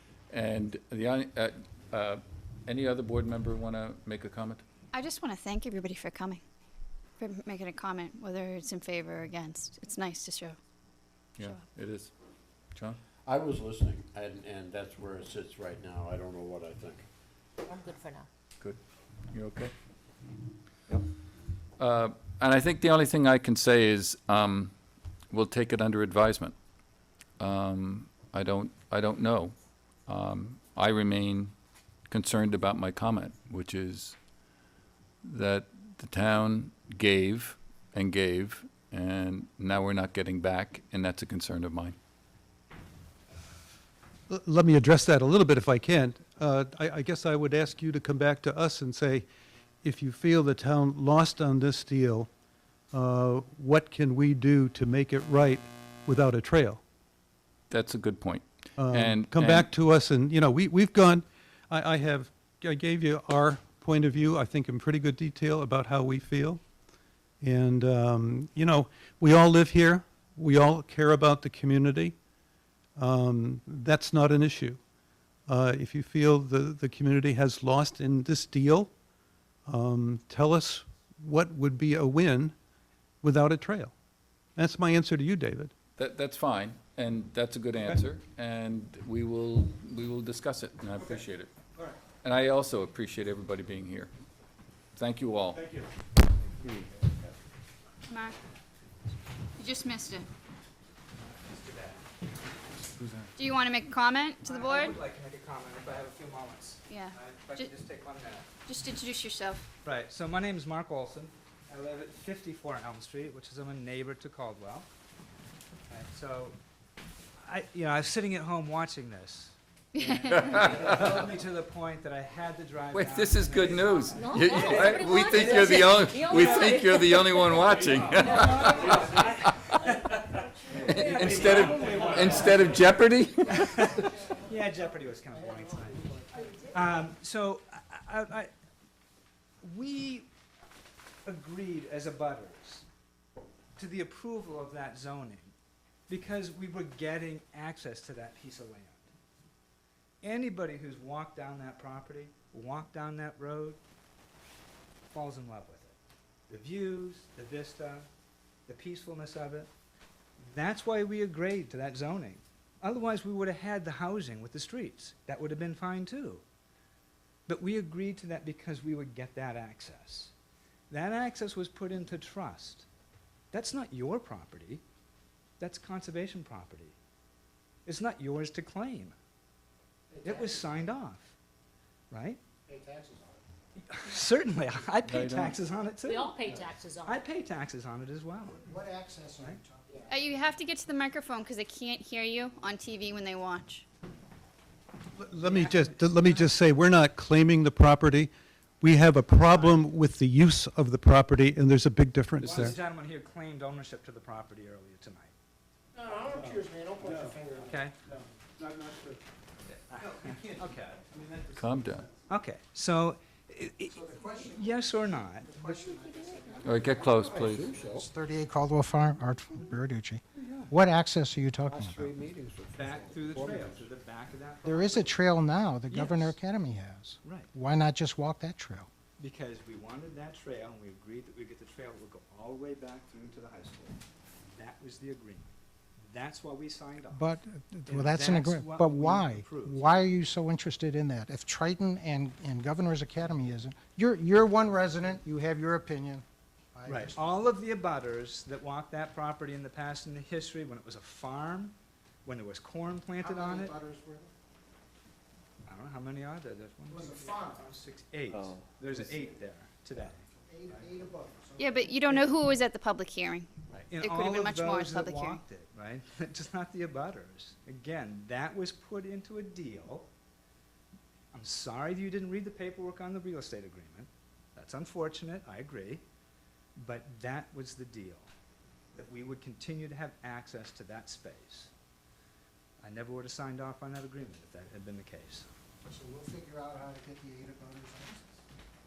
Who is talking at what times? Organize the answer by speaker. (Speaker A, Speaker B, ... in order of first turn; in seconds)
Speaker A: 0.3-4.6, 11.4-12.1, 19.3-19.7, 21.8-24.7, 25.3-26.6, 27.4-29.6, 30.1-31.5, 32.1-34.2, 35.2-42.0, 57.7-59.7, 86.0-91.5, 92.2-94.1, 95.0-95.6, 120.4-120.9, 122.9-129.5, 130.8-133.9, 185.1-185.6, 211.6-212.1, 216.6-217.8
Speaker B: 4.9-6.4, 7.2-10.6, 98.1-98.4, 99.6-100.3, 103.4-105.0, 106.9-107.7, 108.7-109.7, 120.1-120.5, 190.1-193.8, 217.2-218.1, 221.7-223.8, 258.3-258.6, 261.6-263.5, 264.0-265.4
Speaker C: 13.3-17.1
Speaker D: 17.7-18.3, 124.1-127.6, 128.1-129.1, 131.0-132.2, 186.0-187.2, 215.9-216.6
Speaker E: 44.3-49.3, 49.8-52.3, 52.9-56.8, 58.8-66.6, 67.4-72.2, 73.0-74.8, 75.5-78.9, 79.7-82.5, 83.2-83.9, 84.6-85.7, 95.6-95.8, 195.2-202.8, 206.3-207.4, 208.5-209.2, 209.9-212.1
Speaker F: 101.2-102.0, 104.4-108.5, 109.8-114.9, 115.9-116.6, 117.4-136.1, 136.7-138.5, 139.6-140.3, 141.3-142.8, 143.8-145.5, 146.1-149.1, 150.2-153.8, 155.1-155.9, 156.5-158.1, 158.7-159.7, 160.4-166.4, 167.5-170.3, 170.9-172.9, 173.5-174.8, 175.6-176.9, 177.9-179.2, 180.2-181.3, 182.1-182.4, 183.9-186.4, 187.0-188.6, 195.4-196.4, 202.4-205.3, 207.6-207.9, 209.9-211.0, 212.3-215.7, 220.4-220.7, 222.7-225.2, 225.9-226.4, 227.2-227.5, 229.2-234.0, 234.5-235.5, 236.1-237.3, 237.9-239.8, 246.9-253.7, 255.7-260.9, 263.7-270.1, 271.3-276.0, 276.8-278.3, 278.9-281.7, 282.8-285.5
Speaker G: 135.3-136.8, 180.1-180.7, 182.7-183.4, 186.5-186.8, 188.6-190.2, 205.9-208.2, 213.9-222.2, 224.6-228.9, 237.1-246.2, 246.8-247.2, 253.2-254.3, 256.9-257.7, 260.4-262.4, 285.9-288.2